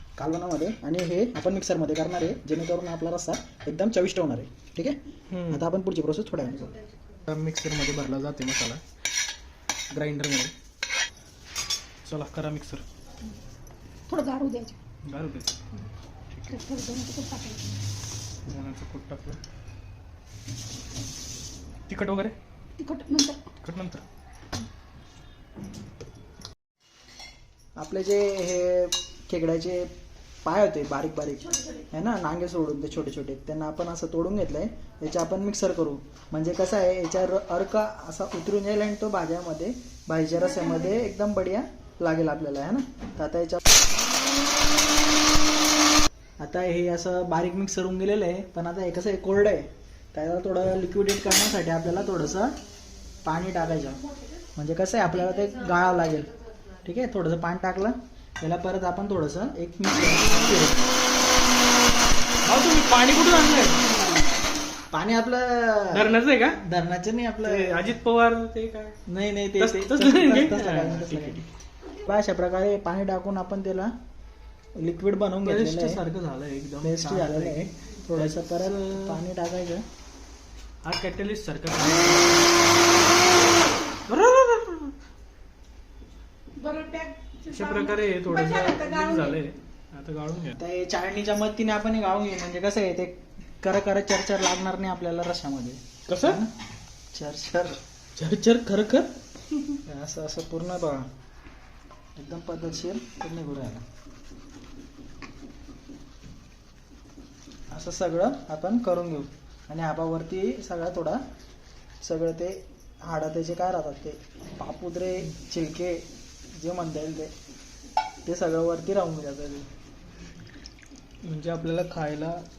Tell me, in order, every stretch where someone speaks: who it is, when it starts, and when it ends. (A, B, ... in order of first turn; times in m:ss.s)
0:00.2-0:05.0 A
0:05.3-0:05.6 B
0:05.5-0:06.8 A
0:07.3-0:08.8 B
0:09.9-0:10.5 B
0:12.0-0:12.8 B
0:14.1-0:14.8 C
0:15.0-0:15.7 B
0:16.3-0:16.6 B
0:16.5-0:17.8 C
0:18.5-0:19.4 B
0:21.9-0:22.3 B
0:22.8-0:23.4 C
0:23.6-0:24.0 B
0:27.8-0:29.9 A
0:30.4-0:43.6 A
0:46.4-0:52.6 A
0:53.2-0:54.0 A
0:54.0-0:54.4 C
0:54.6-0:56.3 A
0:56.8-1:00.8 A
1:00.4-1:00.8 B
1:02.4-1:03.8 B
1:04.9-1:07.9 A
1:05.9-1:06.6 B
1:07.4-1:09.0 B
1:09.1-1:11.4 A
1:09.5-1:11.5 B
1:12.0-1:13.9 A
1:14.8-1:16.0 A
1:15.4-1:19.2 B
1:16.8-1:19.8 A
1:20.8-1:22.7 B
1:24.1-1:24.9 B
1:26.6-1:29.4 C
1:27.5-1:30.6 B
1:30.6-1:36.5 A
1:36.1-1:36.4 B
1:37.1-1:37.8 A
1:38.2-1:39.1 B
1:39.8-1:41.1 A
1:42.2-1:43.8 A
1:47.7-1:51.2 A
1:52.0-1:57.3 A
1:58.2-1:59.7 A
2:01.2-2:02.4 B